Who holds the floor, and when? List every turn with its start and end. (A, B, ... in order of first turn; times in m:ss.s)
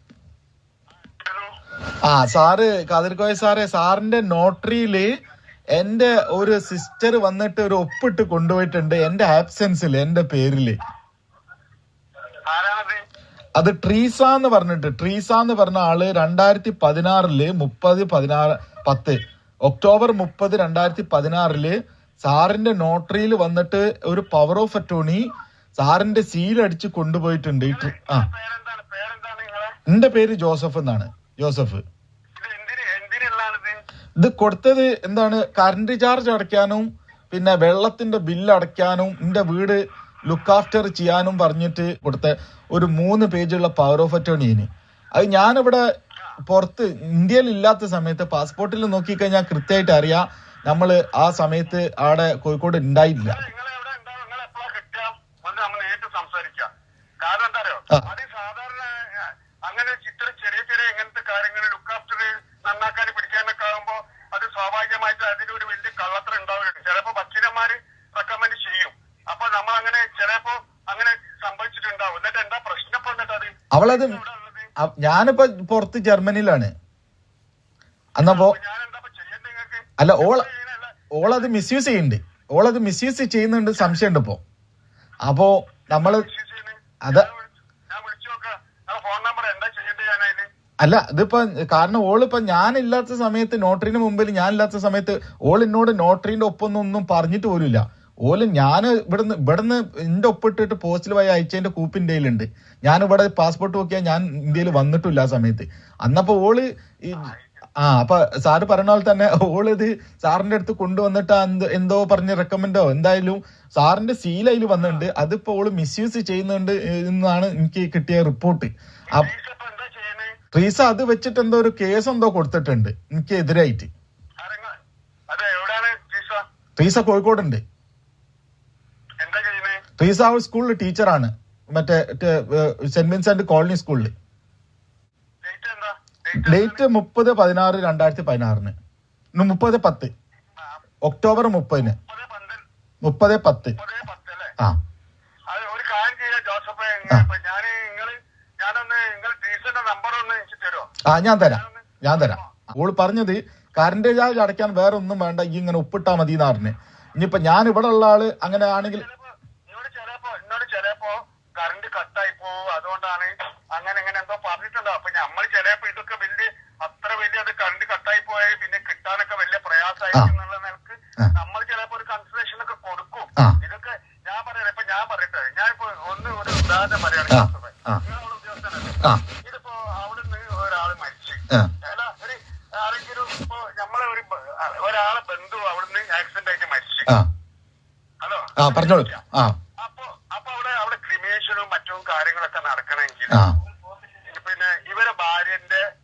0:00.9-0:01.6 A
0:02.0-0:05.1 B
0:05.8-0:10.8 B
0:12.5-0:13.0 A
0:13.6-0:25.2 B
0:25.8-0:28.3 B
0:27.7-0:29.8 A
0:29.9-0:31.8 B
0:32.4-0:33.8 A
0:34.2-0:45.8 B
0:46.5-0:53.4 B
0:53.2-0:56.7 A
0:57.2-1:14.7 A
1:13.7-1:14.2 B
1:14.8-1:16.7 B
1:18.2-1:18.6 B
1:18.2-1:21.2 A
1:20.0-1:20.5 B
1:21.1-1:24.4 B
1:25.3-1:26.3 B
1:25.9-1:30.5 A
1:27.0-1:27.3 B
1:30.8-1:59.3 B
1:47.1-1:47.6 A
1:54.8-1:55.1 A
1:59.1-2:00.4 A
2:00.5-2:03.9 B
2:04.4-2:04.7 A
2:05.3-2:06.4 A
2:06.8-2:07.6 B
2:09.2-2:09.8 A
2:10.0-2:14.1 B
2:15.4-2:16.8 A
2:16.4-2:18.7 B
2:19.4-2:20.1 B
2:21.0-2:22.0 B
2:22.0-2:22.6 A
2:23.0-2:23.8 B
2:23.8-2:24.5 A
2:25.5-2:32.5 A
2:31.1-2:39.0 B
2:38.7-3:07.2 A
2:57.3-2:58.0 B
3:08.2-3:09.2 A
3:08.6-3:09.6 B
3:09.8-3:13.5 A
3:13.3-3:13.6 B
3:14.1-3:15.8 A